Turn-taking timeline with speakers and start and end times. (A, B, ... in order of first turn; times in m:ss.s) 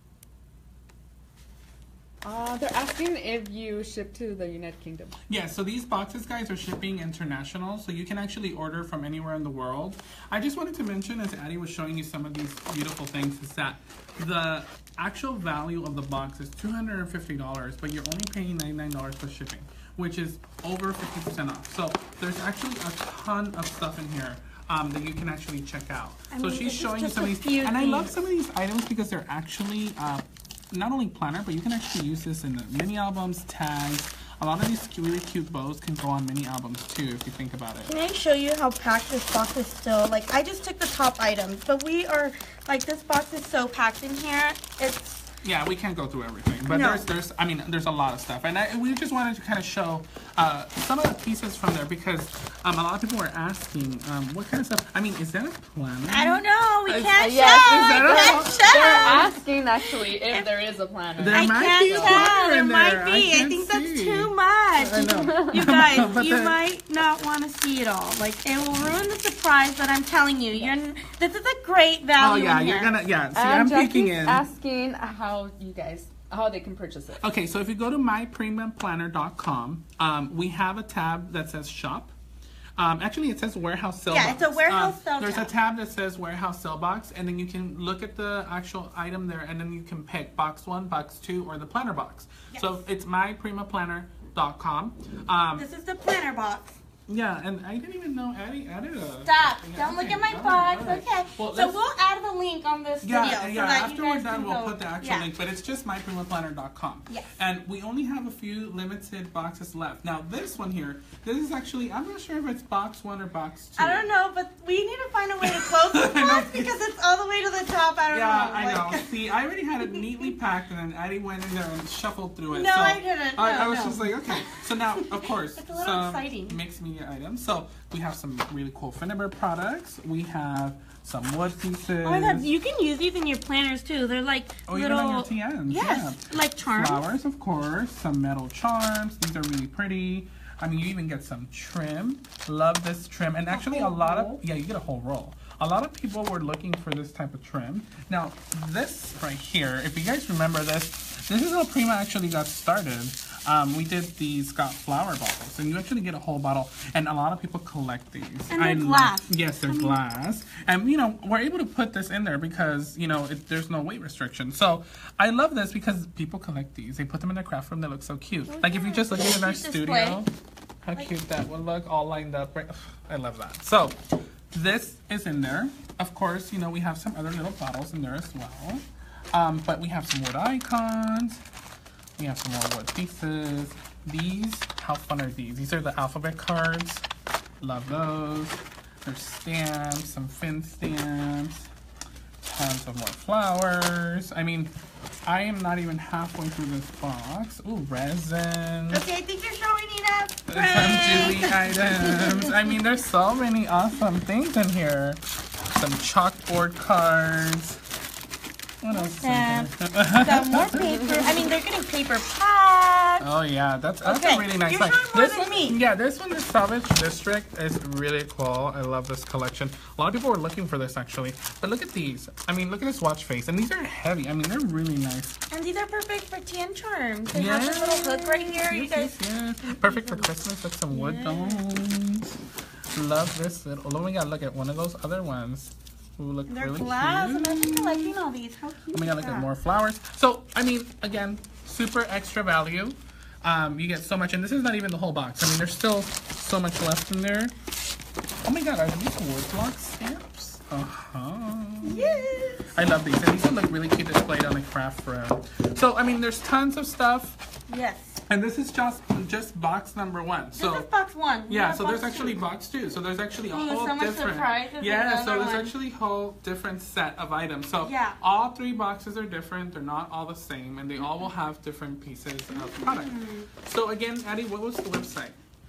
0:02.2-0:05.1 A
0:05.3-0:37.9 B
0:26.3-0:28.3 C
0:37.8-0:45.3 C
0:45.4-0:57.2 B
0:46.7-0:47.0 C
0:56.0-1:00.5 C
0:57.2-1:02.3 A
0:57.7-0:59.2 B
1:01.2-1:06.6 B
1:01.3-1:12.9 C
1:12.2-1:14.4 B
1:13.3-1:17.2 A
1:17.2-1:22.1 B
1:22.8-1:35.6 B
1:24.1-1:25.5 C
1:32.5-1:32.8 C
1:35.6-1:36.8 C
1:37.1-1:41.8 B
1:39.2-1:45.3 C
1:43.0-1:54.1 B
1:53.8-1:59.1 C
1:55.4-1:56.7 B
1:58.1-2:12.5 B
1:59.8-2:00.3 C
2:02.5-2:06.6 C
2:12.0-2:17.1 C
2:14.7-2:50.3 B
2:23.5-2:24.4 C
2:38.5-2:40.0 C
2:48.5-2:50.2 C
2:50.8-2:54.0 B
2:54.5-3:01.4 B
3:02.2-3:07.0 B
3:07.6-3:11.7 B
3:12.4-3:14.7 B
3:15.2-3:19.0 B
3:18.9-3:22.5 C
3:20.5-3:27.8 B
3:28.8-3:31.4 B
3:28.9-3:33.2 C
3:33.2-3:45.4 B
3:34.0-3:35.8 C
3:45.5-3:50.3 C
3:47.3-3:52.4 B
3:50.9-3:51.7 C
3:52.9-3:58.1 B
3:56.5-3:59.5 C
3:58.9-4:07.5 B
4:08.4-4:17.4 B
4:11.8-4:12.7 C
4:17.7-4:18.2 C
4:18.3-4:20.9 B
4:20.5-4:22.4 C
4:21.5-4:35.4 B
4:23.5-4:25.7 C
4:27.8-4:28.2 C
4:32.5-4:33.5 C